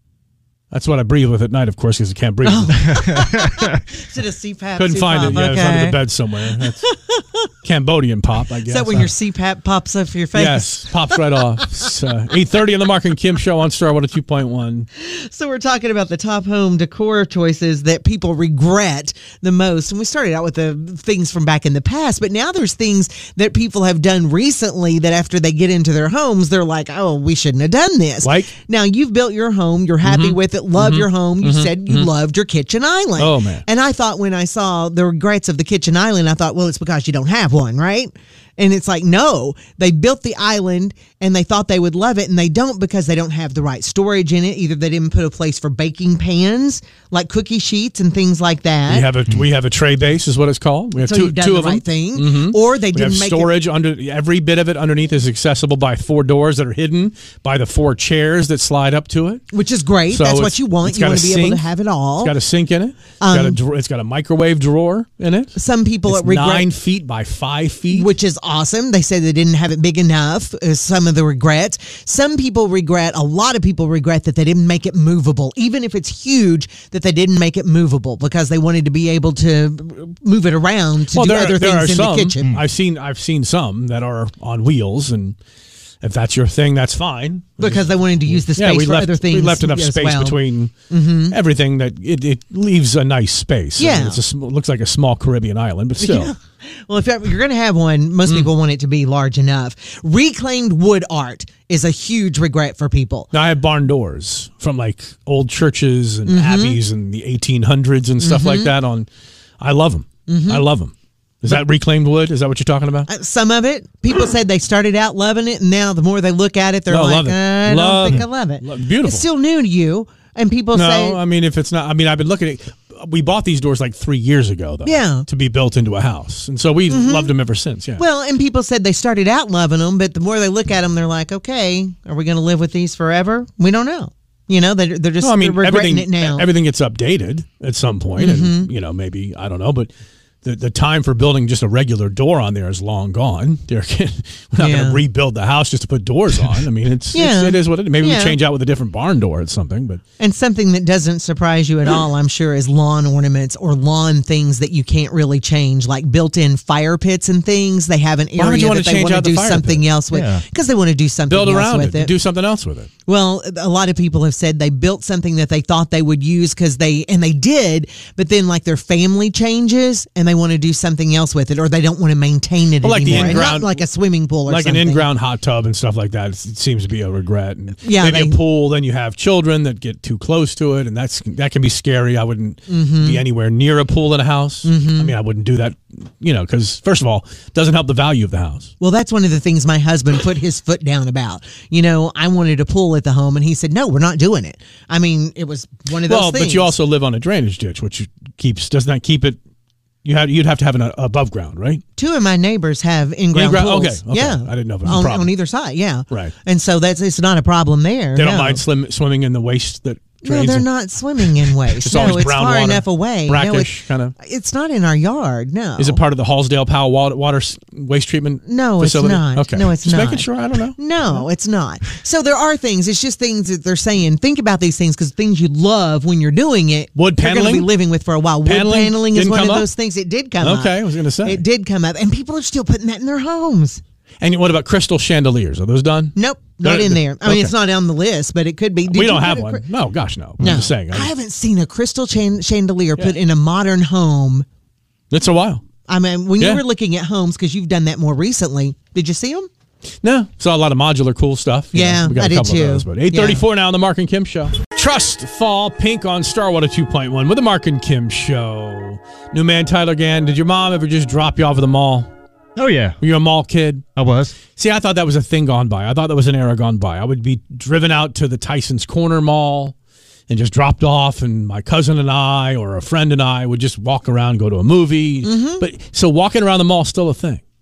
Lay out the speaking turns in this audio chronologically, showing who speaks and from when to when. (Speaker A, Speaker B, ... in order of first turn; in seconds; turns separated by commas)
Speaker A: 0.7-3.0, Speaker B: 2.4-6.0, Speaker C: 3.0-3.8, Speaker A: 4.8-6.8, Speaker B: 6.6-7.5, Speaker A: 7.6-9.1, Speaker B: 8.7-11.2, Speaker A: 10.3-14.9, Speaker B: 15.0-49.1, Speaker A: 28.2-28.5, Speaker A: 30.0-32.1, Speaker A: 33.2-33.6, Speaker A: 48.9-59.4, Speaker B: 51.0-53.5, Speaker B: 59.5-62.3, Speaker A: 60.1-68.1, Speaker B: 63.2-63.6, Speaker B: 65.5-66.7, Speaker B: 67.9-82.5, Speaker A: 81.1-85.4, Speaker A: 86.0-96.3, Speaker B: 87.6-91.3, Speaker B: 93.8-94.2, Speaker B: 96.0-103.3, Speaker A: 103.3-109.1, Speaker B: 106.2-106.8, Speaker B: 108.2-108.7, Speaker A: 109.6-113.1, Speaker B: 110.3-110.6, Speaker B: 113.1-121.2, Speaker A: 116.9-119.3, Speaker A: 120.7-128.0, Speaker B: 124.8-125.2, Speaker B: 126.9-127.3, Speaker B: 128.0-136.5, Speaker A: 135.2-139.9, Speaker B: 138.2-138.7, Speaker A: 140.4-150.0, Speaker B: 144.6-145.0, Speaker B: 147.1-148.4, Speaker B: 150.2-162.1, Speaker A: 158.4-159.8, Speaker C: 160.1-160.4, Speaker A: 161.3-162.9, Speaker B: 163.1-175.1, Speaker A: 172.8-173.8, Speaker A: 174.4-188.7, Speaker B: 177.8-178.4, Speaker B: 182.7-183.2, Speaker B: 184.6-185.1, Speaker B: 188.8-196.7, Speaker A: 196.1-199.4, Speaker A: 200.0-201.8, Speaker B: 201.9-208.6, Speaker A: 203.3-205.3, Speaker A: 208.1-214.1, Speaker B: 210.2-216.0, Speaker A: 215.8-220.8, Speaker B: 218.4-233.8, Speaker A: 226.9-227.7, Speaker A: 228.4-229.7, Speaker A: 230.4-231.4, Speaker A: 234.2-237.5, Speaker B: 236.1-239.6, Speaker A: 238.9-241.1, Speaker B: 240.4-244.4, Speaker A: 245.1-245.6, Speaker B: 245.8-249.5, Speaker A: 250.0-262.1, Speaker B: 251.7-253.4, Speaker C: 262.6-263.0, Speaker A: 263.0-263.8, Speaker C: 263.9-264.4, Speaker A: 264.6-269.7, Speaker A: 270.3-277.4, Speaker B: 275.2-275.6